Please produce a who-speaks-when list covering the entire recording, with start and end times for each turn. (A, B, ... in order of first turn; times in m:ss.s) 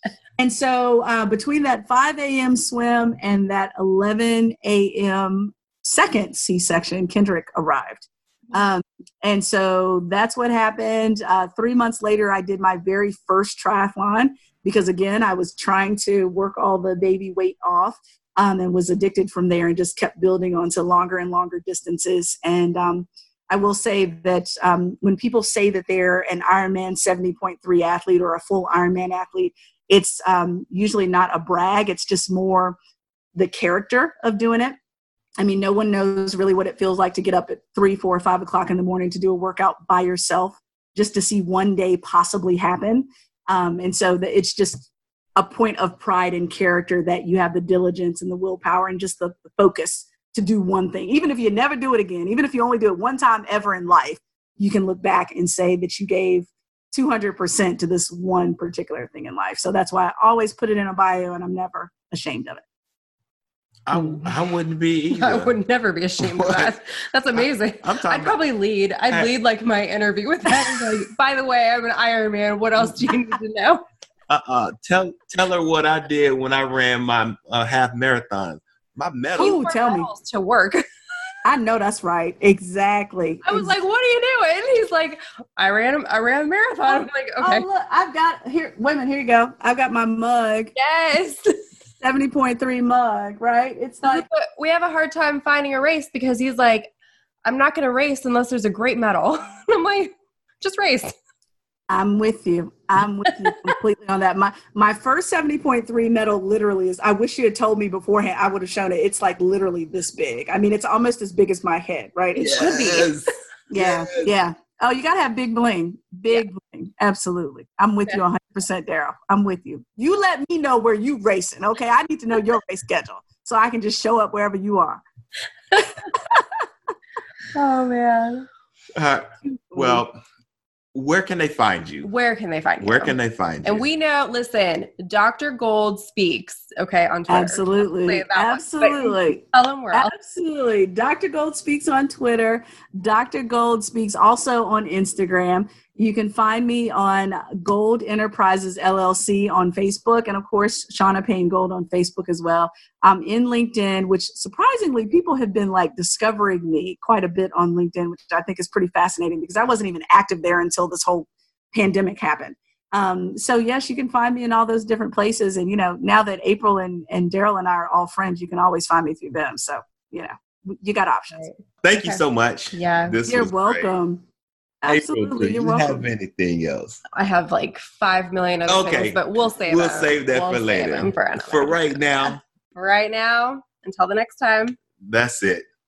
0:00.4-0:32.8 A
0:33.4-0:34.8 A
0:35.4-1:02.6 A
1:03.9-1:05.5 B
1:03.9-1:04.3 C
1:05.1-1:13.8 C
1:06.2-1:06.7 B
1:07.4-1:08.4 B
1:14.3-1:19.6 B
1:19.4-1:20.1 A
1:19.4-1:20.8 C
1:21.4-1:23.7 A
1:23.4-1:27.7 C
1:26.9-1:30.7 A
1:30.8-1:31.4 C
1:32.0-1:34.3 A
1:34.1-1:36.9 C
1:37.4-1:41.2 C
1:41.9-1:53.1 A
1:52.4-1:54.3 B
1:53.7-2:05.0 A
2:05.7-2:06.1 C
2:07.5-2:08.5 C
2:09.0-2:10.2 B
2:09.4-2:10.0 A
2:10.9-2:12.1 B
2:12.0-2:20.1 C
2:12.8-2:13.8 B
2:17.3-2:51.5 A
2:51.3-2:52.2 C
2:51.8-2:54.0 B
2:52.7-2:53.2 C
2:53.3-2:54.2 A
2:54.8-2:56.0 A
2:54.9-2:57.0 B
2:57.1-3:02.0 C
2:58.7-3:02.4 B
3:02.8-3:04.8 C
3:05.0-3:05.7 B